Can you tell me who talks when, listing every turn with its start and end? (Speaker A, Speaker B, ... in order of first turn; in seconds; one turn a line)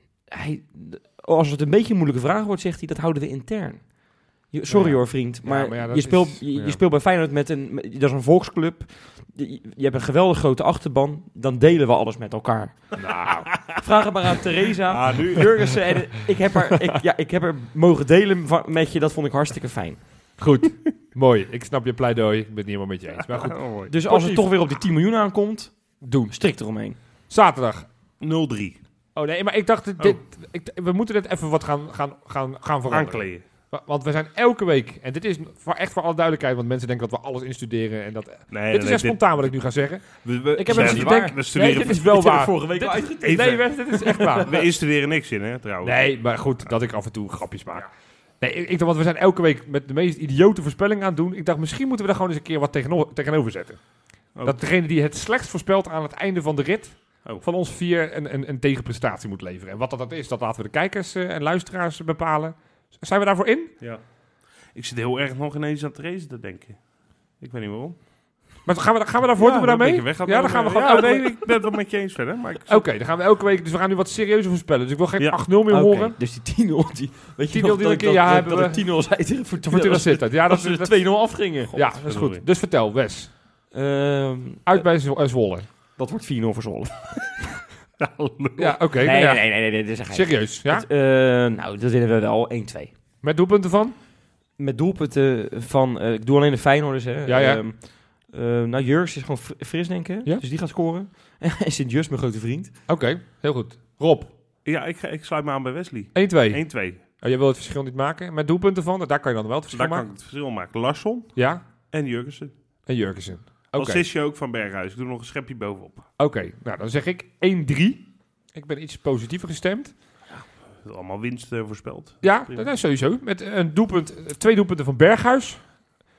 Speaker A: 0.3-13.1
Speaker B: 4.7-6.8
Speaker B: 13.0-13.8
Speaker A: 13.8-20.4
Speaker C: 14.9-16.0
Speaker B: 20.4-24.5
Speaker C: 23.4-23.9
Speaker A: 23.9-27.0
Speaker B: 26.0-27.9
Speaker C: 28.2-28.8
Speaker B: 29.1-44.6
Speaker C: 32.9-33.4
Speaker C: 38.5-42.5
Speaker A: 40.5-44.4
Speaker C: 43.3-46.6
Speaker B: 45.8-63.8
Speaker C: 54.3-54.6
Speaker C: 63.8-68.5
Speaker B: 68.6-71.5
Speaker C: 69.4-72.8
Speaker B: 72.7-76.2
Speaker A: 75.7-82.0
Speaker B: 77.5-83.3
Speaker C: 82.0-82.4
Speaker A: 83.7-84.8
Speaker B: 84.7-85.7
Speaker A: 86.0-87.4
Speaker C: 88.0-88.8
Speaker B: 88.6-90.9
Speaker A: 89.0-92.9
Speaker B: 93.2-94.0
Speaker A: 94.5-102.8
Speaker B: 97.3-97.6
Speaker B: 102.9-104.3
Speaker C: 104.6-107.0
Speaker B: 106.1-110.1
Speaker C: 109.7-112.9
Speaker B: 111.3-111.6
Speaker B: 112.8-114.0
Speaker C: 113.7-116.1
Speaker B: 116.2-119.9
Speaker C: 120.3-122.7
Speaker B: 122.2-125.8